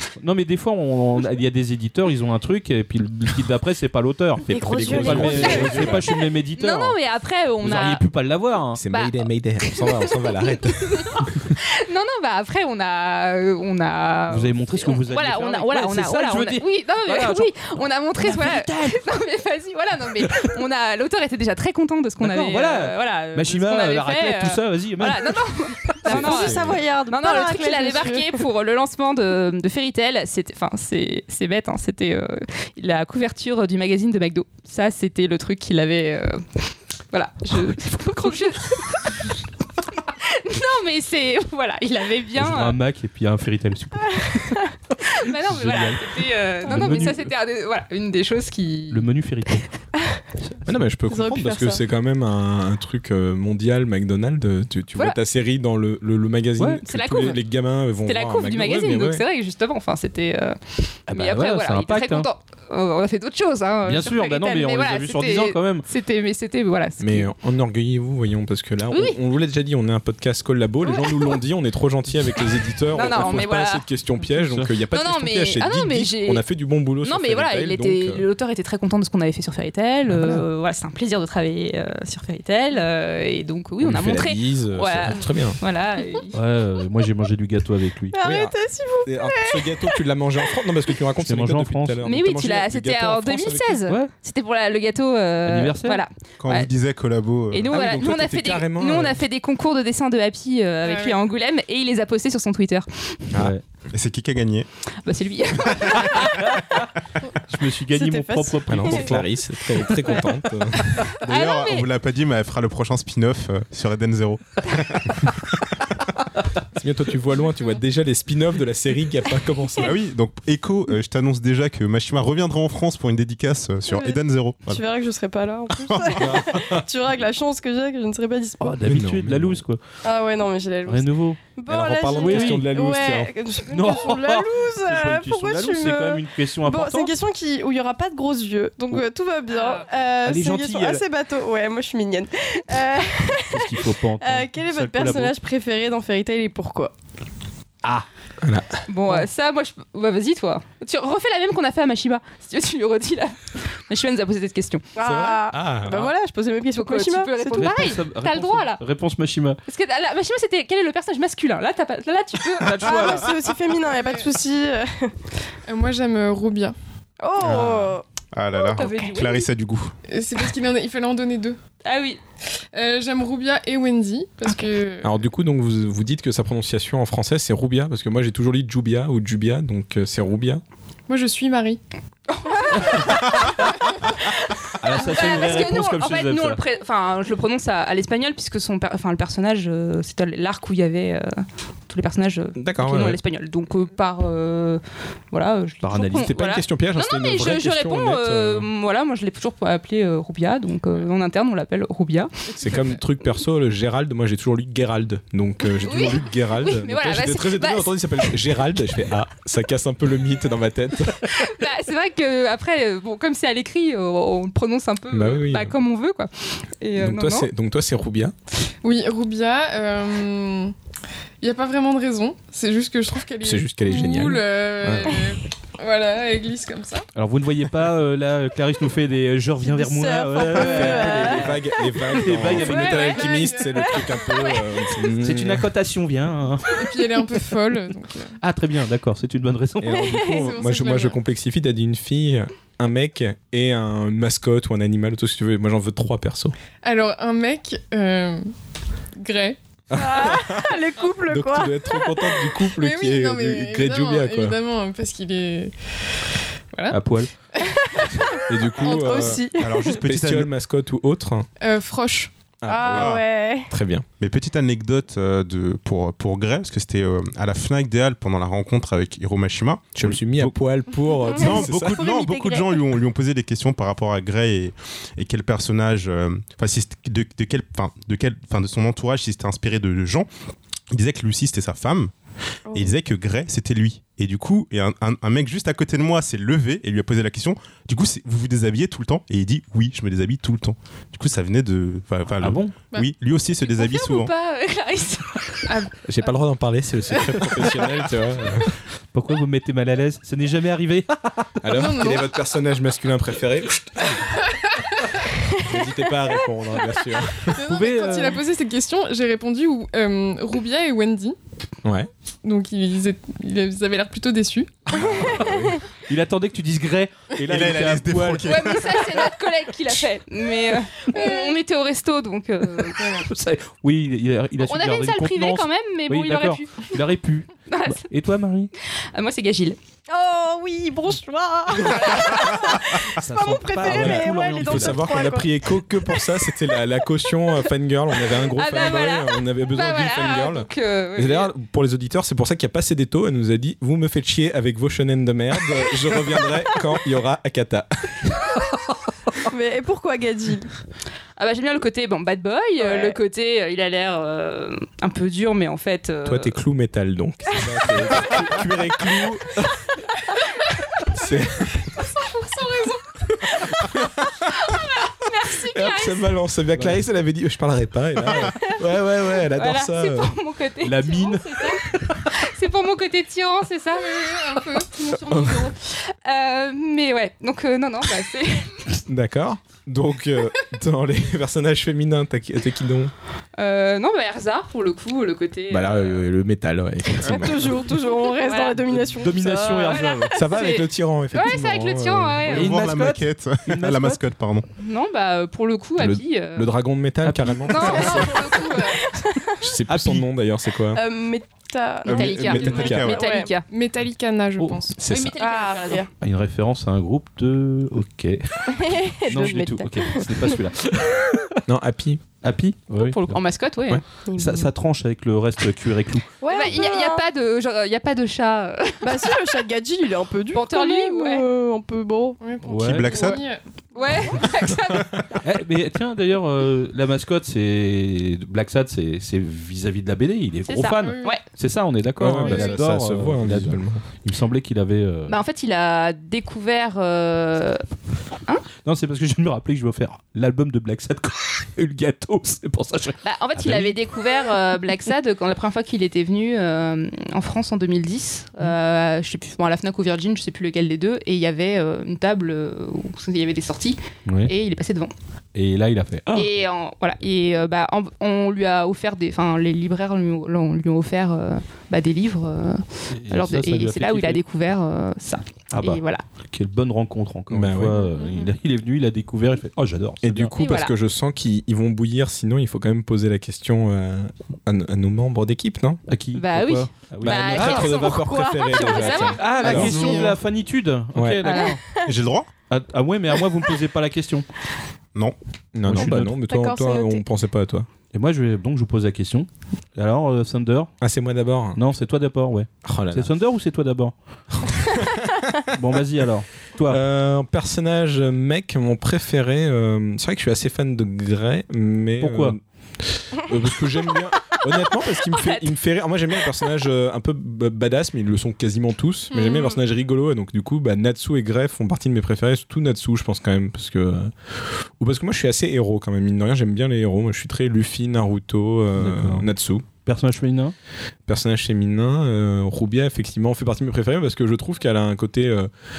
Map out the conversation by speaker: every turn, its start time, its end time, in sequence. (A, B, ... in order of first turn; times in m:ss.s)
0:00.2-0:07.0 A
0:04.5-0:06.0 B
0:04.5-0:06.0 C
0:05.1-0:08.0 D
0:07.6-0:08.8 A
0:08.8-0:11.5 C
0:08.9-0:39.3 D
0:14.3-0:17.7 A
0:18.2-0:19.0 A
0:20.2-0:20.5 A
0:22.2-0:26.5 A
0:26.0-0:26.8 C
0:26.1-0:28.4 B
0:39.9-0:42.8 D
0:42.4-0:47.3 A
0:45.0-0:49.0 D
0:48.9-0:49.7 A
0:50.4-0:50.8 A
0:50.6-0:59.2 C
0:51.1-0:51.8 B
0:56.6-0:56.8 A
0:56.8-0:57.4 D
0:58.0-1:07.3 D
1:01.1-1:02.3 A
1:03.8-1:05.8 A
1:07.0-1:18.2 C
1:08.9-1:09.2 D
1:10.8-1:11.4 D
1:12.9-1:13.9 D
1:14.4-1:14.7 A
1:14.9-1:16.4 D
1:17.0-1:26.4 D
1:20.1-1:20.4 A
1:23.8-1:25.6 C
1:26.3-1:28.2 A
1:28.1-1:30.0 B
1:28.2-1:33.8 C
1:31.2-1:32.0 A
1:32.0-1:36.7 D
1:35.4-1:36.0 A
1:36.4-1:37.7 E
1:37.5-1:43.3 D
1:37.7-1:39.2 C
1:40.8-1:41.2 F
1:43.4-1:43.6 A
1:43.9-1:44.7 E
1:45.0-1:46.5 D
1:46.4-1:46.8 A
1:47.5-1:49.3 A
1:47.9-1:49.1 B
1:48.7-1:51.2 C
1:50.0-1:51.9 D
1:51.2-1:55.6 E
1:56.7-1:59.9 C
1:59.8-2:04.8 E
2:03.9-2:08.8 B
2:05.7-2:06.5 E
2:06.2-2:06.8 C
2:08.6-2:09.8 A
2:08.8-2:09.6 C
2:10.0-2:26.9 B
2:10.9-2:11.4 A
2:11.7-2:13.3 C
2:12.2-2:12.7 A
2:13.7-2:17.1 A
2:19.5-2:19.9 D
2:20.2-2:21.0 A
2:23.3-2:25.3 A
2:28.4-2:29.2 C
2:28.9-2:34.8 D
2:34.9-2:37.9 B
2:35.0-2:36.1 C
2:36.7-2:38.8 D
2:37.5-2:39.6 A
2:39.6-2:43.3 D
2:42.7-2:45.1 B
2:43.9-2:44.3 F
2:45.7-2:46.8 F
2:47.2-2:48.0 B
2:47.4-2:47.9 C
2:48.3-2:49.9 E
2:48.6-2:49.5 D
2:50.1-2:51.6 F
2:51.8-2:52.2 D
2:52.7-2:55.2 F
2:55.0-3:00.6 C
3:01.1-3:01.8 F
3:02.3-3:22.3 D
3:04.8-3:06.6 A
3:12.6-3:13.2 C
3:15.8-3:16.2 A
3:16.1-3:18.7 C
3:22.5-3:23.0 F
3:22.6-3:31.5 C
3:25.7-3:28.4 D
3:31.2-3:37.5 D
3:35.1-3:35.7 C
3:37.0-3:38.3 C
3:38.8-3:40.7 F
3:41.4-3:47.0 F
3:43.4-3:45.2 C
3:47.1-3:53.3 A
3:49.6-3:51.6 B
3:50.5-3:55.7 C
3:52.5-3:54.7 B
3:52.7-3:53.3 D
3:53.1-3:53.8 F
3:55.0-3:56.9 A
3:56.7-3:58.4 F
3:58.4-4:00.1 A
3:59.8-4:06.6 C
4:00.0-4:00.4 B
4:00.2-4:01.2 F
4:06.8-4:08.5 F
4:09.2-4:09.6 F
4:09.9-4:14.6 C
4:09.9-4:12.3 B
4:12.7-4:17.0 F
4:16.9-4:17.3 A
4:17.7-4:18.4 B
4:18.5-4:21.5 C
4:18.8-4:19.2 F
4:18.9-4:20.0 B
4:19.5-4:20.5 E
4:21.6-4:22.3 F
4:22.6-4:24.0 C
4:22.7-4:23.7 B
4:22.9-4:23.2 E
4:24.2-4:30.6 E
4:30.0-4:32.0 C
4:31.2-4:32.8 B
4:31.3-4:40.3 E
4:40.9-4:42.1 E
4:42.7-4:42.9 B
4:42.7-4:54.3 E
4:52.4-4:52.8 A
4:53.6-4:55.9 D
4:56.0-4:58.7 C
4:59.1-5:01.9 A
5:01.6-5:04.2 C
5:01.7-5:02.3 F
5:04.5-5:05.0 F
5:05.5-5:07.6 C
5:07.5-5:11.4 F
5:07.6-5:08.4 A
5:11.8-5:12.1 C
5:12.4-5:14.9 F
5:14.9-5:15.8 C
5:15.0-5:18.6 A
5:15.0-5:15.7 B
5:17.4-5:19.3 E
5:18.4-5:23.2 D
5:23.0-5:28.7 A
5:24.6-5:27.0 D
5:27.7-5:28.0 D
5:28.8-5:29.8 D
5:30.1-5:35.5 B
5:31.7-5:32.6 D
5:33.2-5:35.0 A
5:33.8-5:48.3 C
5:38.5-5:41.5 D
5:49.5-5:50.7 B
5:51.4-5:56.5 D
5:52.8-5:53.2 B
5:56.2-5:59.9 C
6:01.1-6:01.9 C
6:02.0-6:03.1 F
6:03.8-6:04.3 C
6:04.5-6:06.3 D
6:05.7-6:10.3 C
6:06.8-6:07.0 A
6:09.5-6:18.9 D
6:10.8-6:12.3 A
6:13.9-6:15.0 F
6:15.3-6:15.6 C
6:19.0-6:23.1 C
6:23.6-6:26.2 D
6:25.7-6:27.9 C
6:27.2-6:30.1 B
6:28.1-6:28.7 D
6:28.9-6:30.3 A
6:29.9-6:32.7 D
6:30.3-6:32.5 C
6:32.5-6:34.6 E
6:32.5-6:34.2 A
6:34.8-6:36.7 D
6:36.0-6:38.5 C
6:37.2-6:38.2 A
6:37.7-6:39.1 D
6:37.8-6:39.6 B
6:39.6-6:41.0 C
6:39.9-6:40.3 A
6:40.9-6:43.5 B
6:42.0-6:43.2 C
6:42.0-6:43.6 D
6:42.4-6:43.3 E
6:43.6-6:45.0 F
6:45.0-6:45.4 C
6:45.0-6:46.1 D
6:45.4-6:46.1 B
6:46.2-6:51.6 A
6:48.7-6:50.6 B
6:51.7-6:52.2 C
6:52.4-6:53.4 A
6:53.0-6:54.0 D
6:54.2-6:54.7 B
6:54.3-6:56.3 A
6:56.4-6:57.2 B
6:56.5-6:59.6 D
6:59.0-7:02.4 B
7:00.5-7:01.4 D
7:02.4-7:04.2 F
7:02.6-7:03.1 A
7:02.8-7:03.4 E
7:03.9-7:05.2 D
7:05.4-7:15.4 A
7:10.7-7:11.4 D
7:11.0-7:11.4 F
7:12.2-7:14.0 C
7:12.3-7:12.8 F
7:15.3-7:17.8 D
7:18.8-7:24.0 A
7:23.2-7:35.1 D
7:34.3-7:34.5 A
7:35.5-7:36.5 A
7:36.3-7:46.2 D
7:43.1-7:44.4 A
7:45.7-7:50.5 A
7:47.5-7:48.0 C
7:47.9-7:48.5 D
7:50.2-7:56.0 C
7:50.5-7:50.9 D
7:56.1-7:57.9 A
7:56.3-7:58.2 D
7:57.2-8:00.3 C
7:57.5-8:00.3 B
7:58.7-8:00.0 D
7:59.4-8:01.8 A
7:59.6-7:59.9 F
8:01.1-8:01.4 C
8:01.4-8:01.7 D
8:01.5-8:02.1 B
8:02.0-8:02.5 E
8:02.7-8:04.5 A
8:05.7-8:07.9 C
8:05.8-8:06.4 A
8:06.0-8:07.2 B
8:08.1-8:10.9 A
8:11.0-8:11.8 C
8:11.7-8:14.1 A
8:12.8-8:13.3 C
8:14.5-8:15.4 C
8:15.7-8:17.0 A
8:16.9-8:34.3 C
8:22.2-8:22.5 A
8:25.3-8:25.7 D
8:29.3-8:29.7 D
8:35.0-8:39.9 C
8:39.0-8:39.5 A
8:40.0-8:40.7 A
8:41.3-8:45.7 C